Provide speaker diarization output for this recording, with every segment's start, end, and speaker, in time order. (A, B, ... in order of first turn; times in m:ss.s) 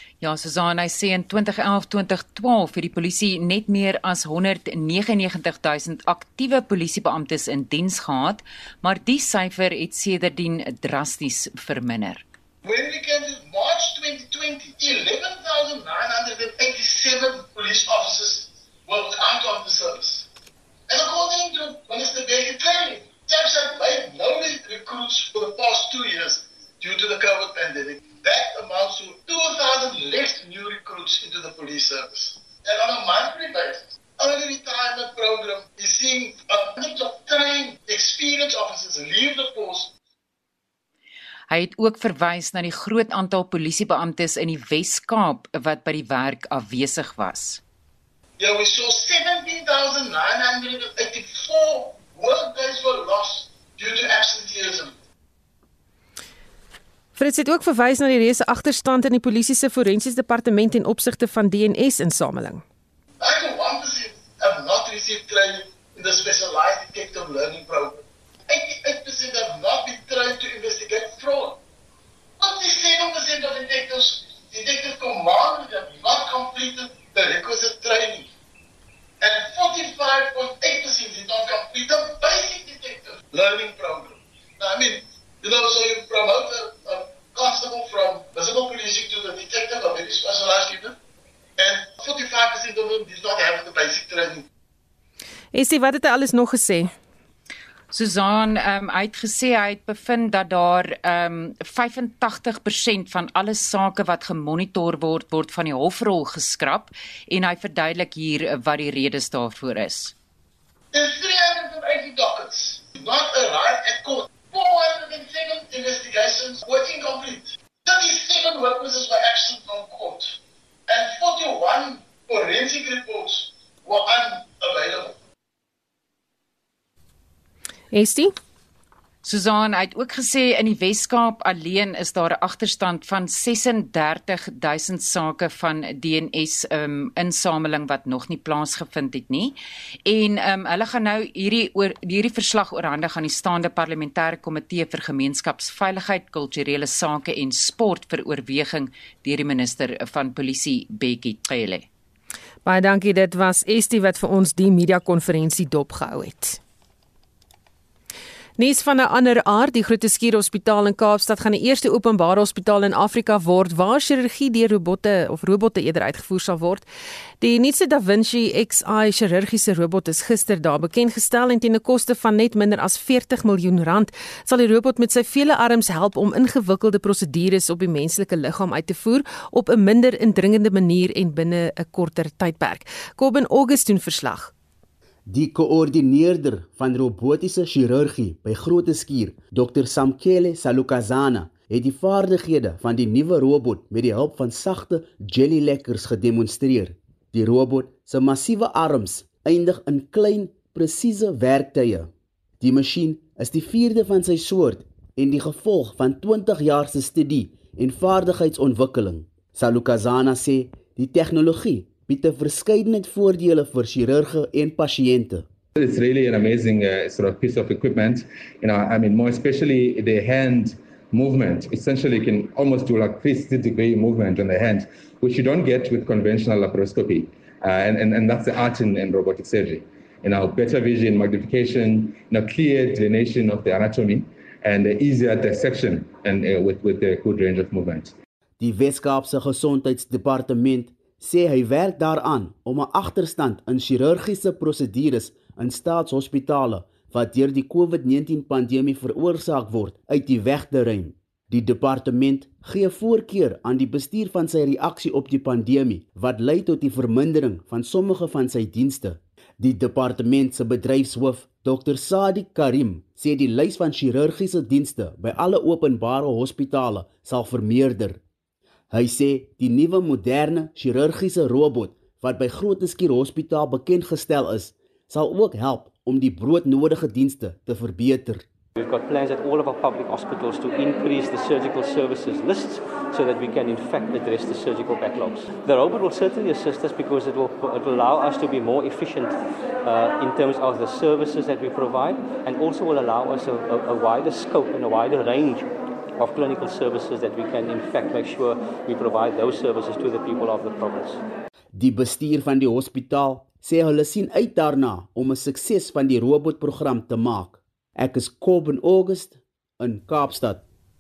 0:00.2-0:12.2 A
0:12.6-0:20.3 B
0:20.9-0:39.9 B
0:41.5-0:47.6 A
0:48.4-0:55.0 B
0:57.2-1:02.6 C
1:03.2-1:11.6 B
1:12.4-1:18.3 B
1:19.2-1:31.0 B
1:31.6-1:34.5 B
1:35.5-1:36.9 C
1:37.9-1:50.1 A
1:50.9-2:00.4 B
2:00.9-2:05.2 B
2:07.9-2:08.3 C
2:09.2-2:19.6 A
2:20.1-2:31.8 A
2:32.7-2:36.6 C
2:38.6-2:46.9 C
2:47.4-3:04.5 C
3:05.3-3:35.5 D
3:35.8-3:58.2 E
3:58.6-4:28.2 D
4:28.9-4:38.5 D
4:38.8-5:01.2 F
5:01.8-5:10.6 D